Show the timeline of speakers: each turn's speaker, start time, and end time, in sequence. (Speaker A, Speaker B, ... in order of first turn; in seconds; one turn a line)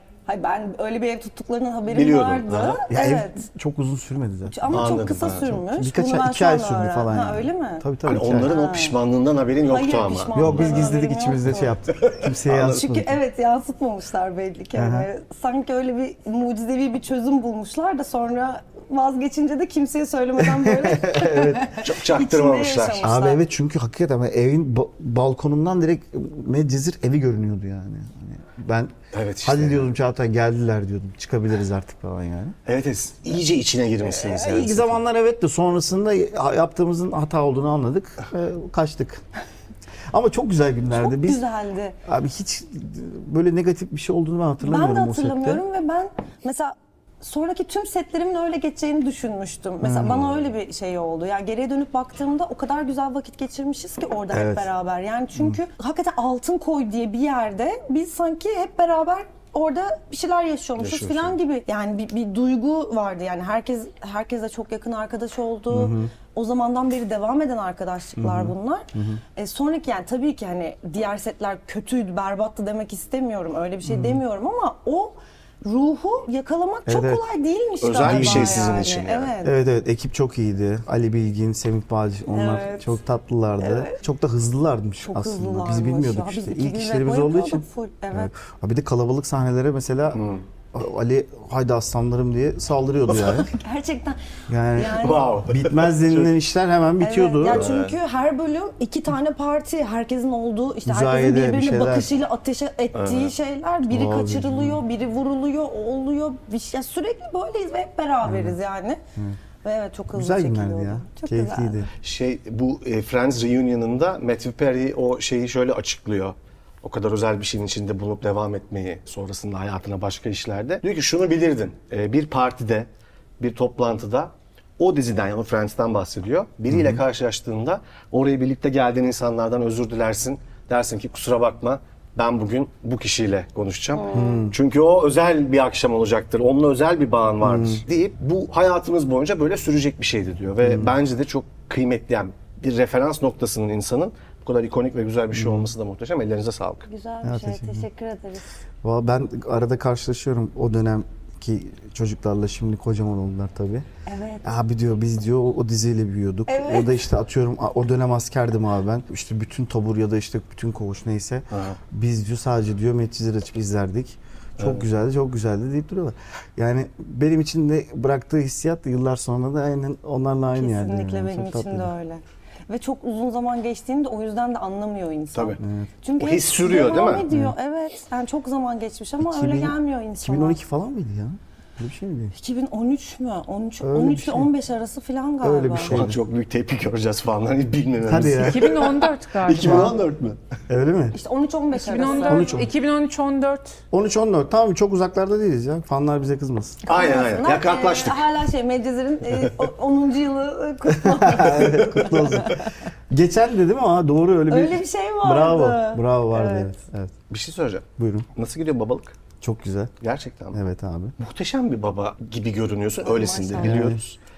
Speaker A: 0.3-3.5
Speaker B: 1.9-2.8
Speaker C: 2.9-8.6
Speaker A: 4.5-7.8
Speaker B: 4.7-5.5
Speaker B: 8.1-10.9
Speaker A: 8.4-9.0
Speaker A: 9.7-11.7
Speaker C: 10.3-13.1
Speaker B: 11.5-12.8
Speaker A: 12.5-23.4
Speaker C: 14.8-15.1
Speaker C: 20.4-21.8
Speaker B: 21.8-23.1
Speaker C: 23.0-32.5
Speaker B: 29.1-29.9
Speaker B: 32.7-35.0
Speaker C: 34.0-39.2
Speaker C: 40.1-41.4
Speaker A: 40.9-42.0
Speaker C: 42.0-45.6
Speaker A: 44.6-79.6
Speaker C: 49.8-50.2
Speaker B: 60.8-61.4
Speaker C: 65.7-66.1
Speaker C: 68.2-69.2
Speaker C: 73.8-74.2
Speaker C: 76.9-77.3
Speaker B: 77.8-79.3
Speaker C: 78.0-78.8
Speaker C: 79.4-90.2
Speaker A: 82.3-83.0
Speaker A: 83.6-84.0
Speaker A: 85.0-88.3
Speaker B: 90.2-90.4
Speaker C: 90.7-93.5
Speaker A: 93.5-94.2
Speaker C: 94.5-97.7
Speaker A: 94.7-95.3
Speaker B: 94.8-96.3
Speaker A: 97.0-109.0
Speaker B: 97.5-97.9
Speaker C: 100.9-102.2
Speaker B: 102.9-103.3
Speaker C: 103.9-104.8
Speaker C: 108.2-108.6
Speaker A: 109.6-111.8
Speaker C: 110.1-111.9
Speaker B: 112.0-122.9
Speaker B: 123.4-146.9
Speaker C: 126.7-127.0
Speaker A: 134.0-134.4
Speaker C: 134.1-134.6
Speaker C: 137.4-137.8
Speaker C: 140.6-140.9
Speaker C: 145.3-145.7
Speaker A: 146.9-148.5
Speaker C: 147.2-147.9
Speaker C: 148.8-153.9
Speaker A: 154.1-154.5
Speaker C: 154.4-171.9
Speaker A: 156.5-156.9
Speaker B: 161.5-161.8
Speaker A: 170.5-180.6
Speaker C: 175.6-175.9
Speaker B: 176.2-177.3
Speaker C: 177.3-177.5
Speaker C: 179.2-182.3
Speaker A: 182.3-186.0
Speaker C: 183.8-184.5
Speaker C: 185.4-186.2
Speaker B: 185.8-190.4
Speaker C: 188.1-188.8
Speaker D: 188.4-190.0
Speaker C: 189.6-190.0
Speaker C: 190.7-191.2
Speaker A: 191.1-192.6
Speaker D: 191.8-193.8
Speaker C: 192.2-192.7
Speaker C: 193.9-196.8
Speaker B: 196.9-198.3
Speaker A: 196.9-202.7
Speaker C: 200.9-207.1
Speaker A: 204.5-206.7
Speaker B: 207.3-209.2
Speaker C: 208.0-208.3
Speaker C: 209.4-209.9
Speaker B: 210.0-210.6
Speaker C: 210.5-211.2
Speaker B: 211.2-214.2
Speaker A: 213.1-213.9
Speaker C: 213.6-214.0